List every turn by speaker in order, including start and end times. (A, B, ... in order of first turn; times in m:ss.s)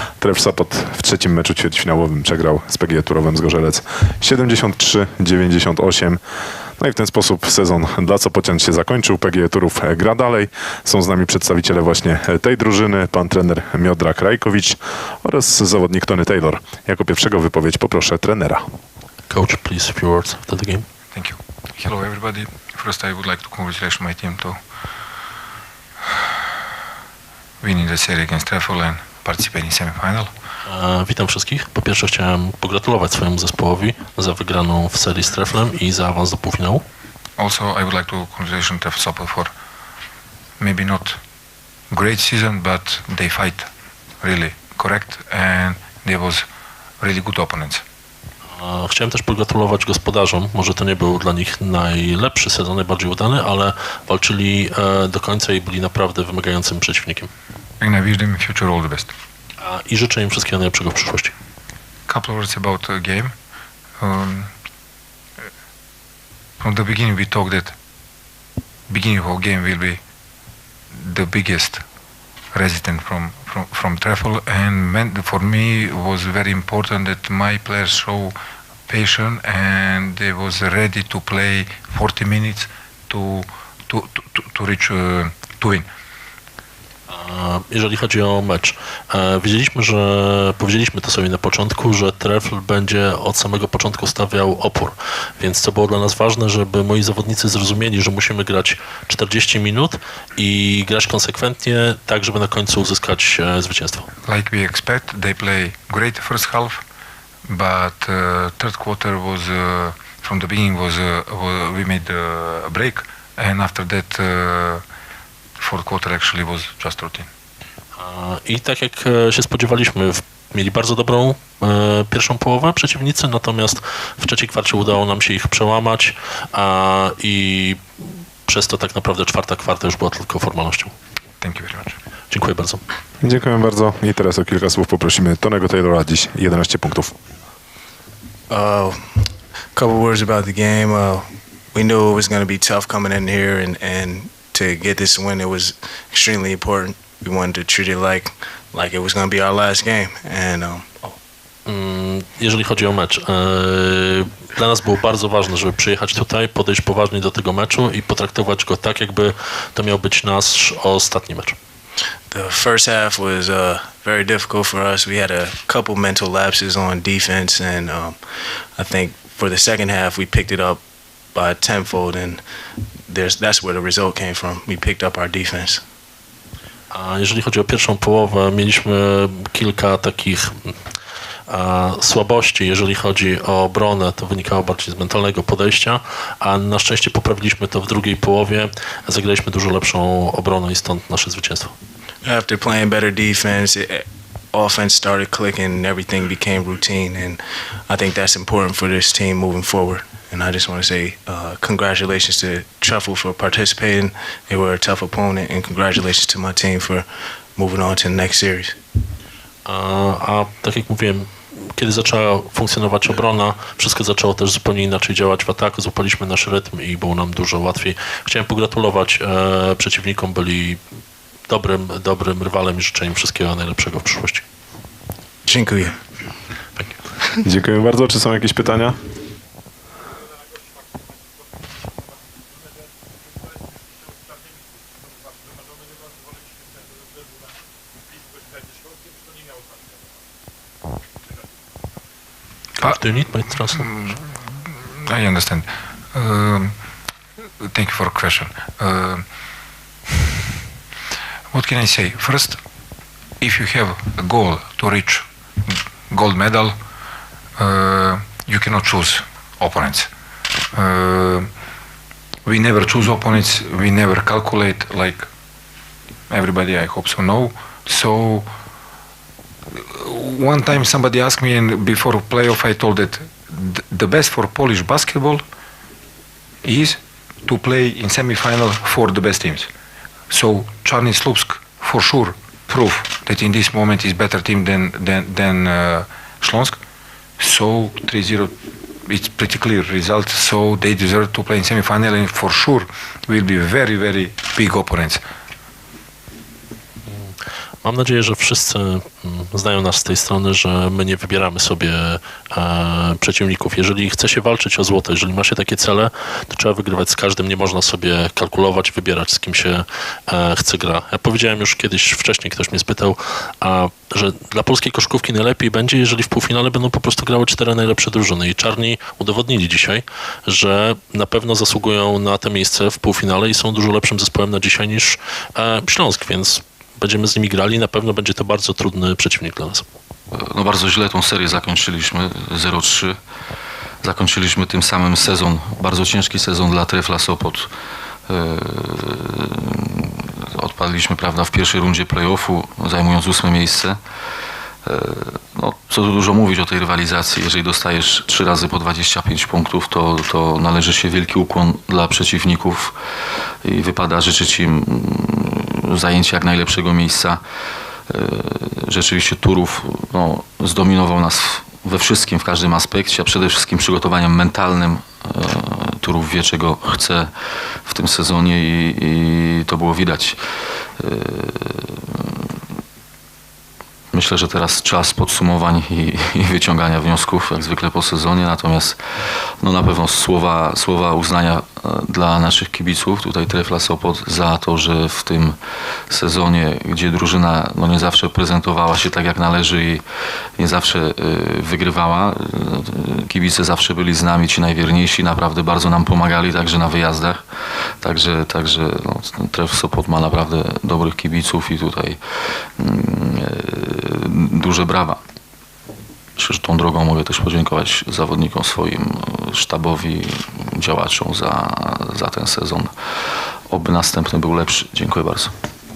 0:00.2-0:06.2 A
0:06.8-0:18.6 A
0:19.3-0:20.8 B
0:21.1-0:24.6 C
0:27.6-0:30.3 C
0:30.7-0:36.8 B
0:37.4-0:39.5 C
0:40.6-0:41.2 C
0:41.9-0:43.7 C
0:44.2-0:46.4 C
0:47.0-0:47.8 C
0:48.5-0:57.3 B
0:57.8-0:59.1 C
0:59.6-1:01.3 B
1:02.1-1:03.3 C
1:04.0-1:04.5 C
1:06.6-1:07.7 C
1:08.9-1:10.0 C
1:10.9-1:11.8 C
1:12.5-1:18.4 C
1:18.9-1:25.9 C
1:27.1-1:44.1 B
1:44.3-1:46.8 C
1:47.5-1:54.8 C
1:55.6-1:57.3 C
1:58.0-2:10.9 B
2:11.4-2:12.0 C
2:12.3-2:12.8 B
2:13.2-2:17.1 A
2:18.5-2:31.2 D
2:31.7-2:41.6 B
2:42.3-2:50.8 D
2:51.3-2:52.4 D
2:53.1-2:55.8 D
2:56.9-3:00.8 B
3:01.5-3:11.7 B
3:12.2-3:28.8 D
3:29.6-3:40.8 B
3:41.5-3:44.4 B
3:45.4-3:46.0 D
3:47.4-3:49.0 A
4:02.8-4:03.9 B
4:03.8-4:04.2 C
4:05.0-4:06.7 C
4:07.6-4:09.2 C
4:11.5-4:12.6 C
4:13.4-4:16.7 C
4:17.6-4:20.1 C
4:20.7-4:21.5 C
4:22.4-4:25.3 C
4:26.3-4:28.5 C
4:29.7-4:35.4 C
4:36.6-4:39.7 C
4:40.3-4:46.8 C
4:47.4-4:48.5 C
4:49.0-4:55.2 C
4:57.0-5:29.8 B
5:30.3-5:33.2 E
5:34.0-5:37.7 E
5:38.3-5:44.0 E
5:44.8-5:52.9 E
5:53.6-5:57.4 E
5:58.1-6:07.3 E
6:07.8-6:10.4 E
6:11.0-6:12.3 E
6:14.1-6:19.0 E
6:19.6-6:25.6 E
6:26.1-6:30.0 E
6:30.6-6:37.4 E
6:38.0-6:42.2 E
6:42.8-6:45.2 E
6:46.4-6:52.9 E
6:53.7-6:55.5 E